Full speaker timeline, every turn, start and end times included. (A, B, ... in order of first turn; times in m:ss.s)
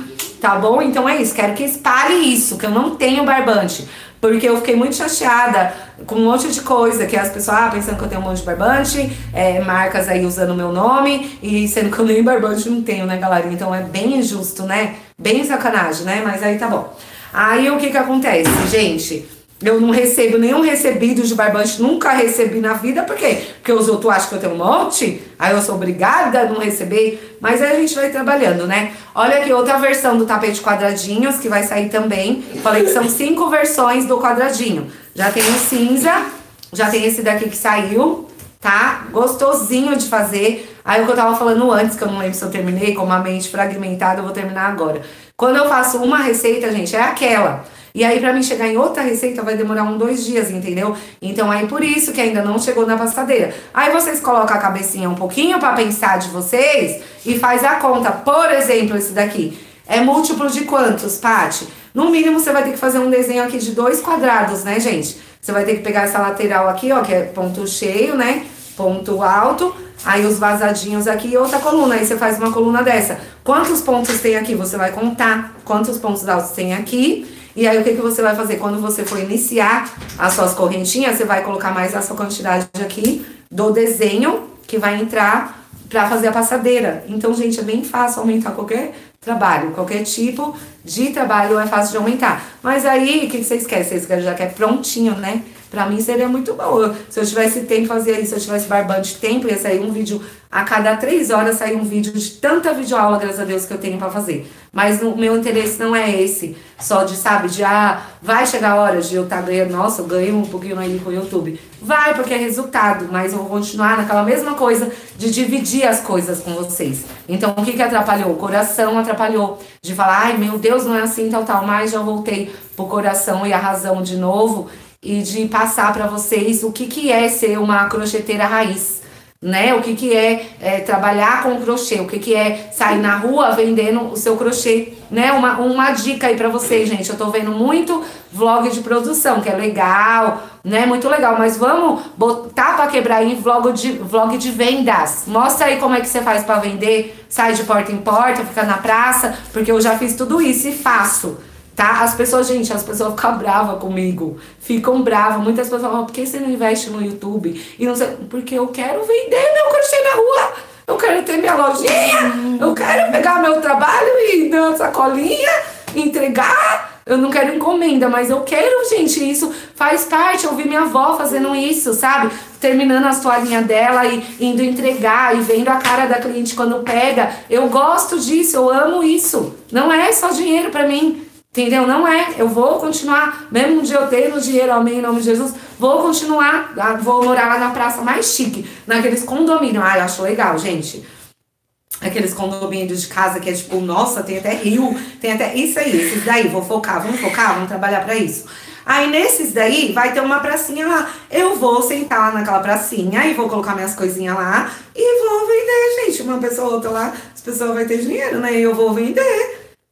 0:00.4-3:11.0 A
3:12.0-3:29.5 A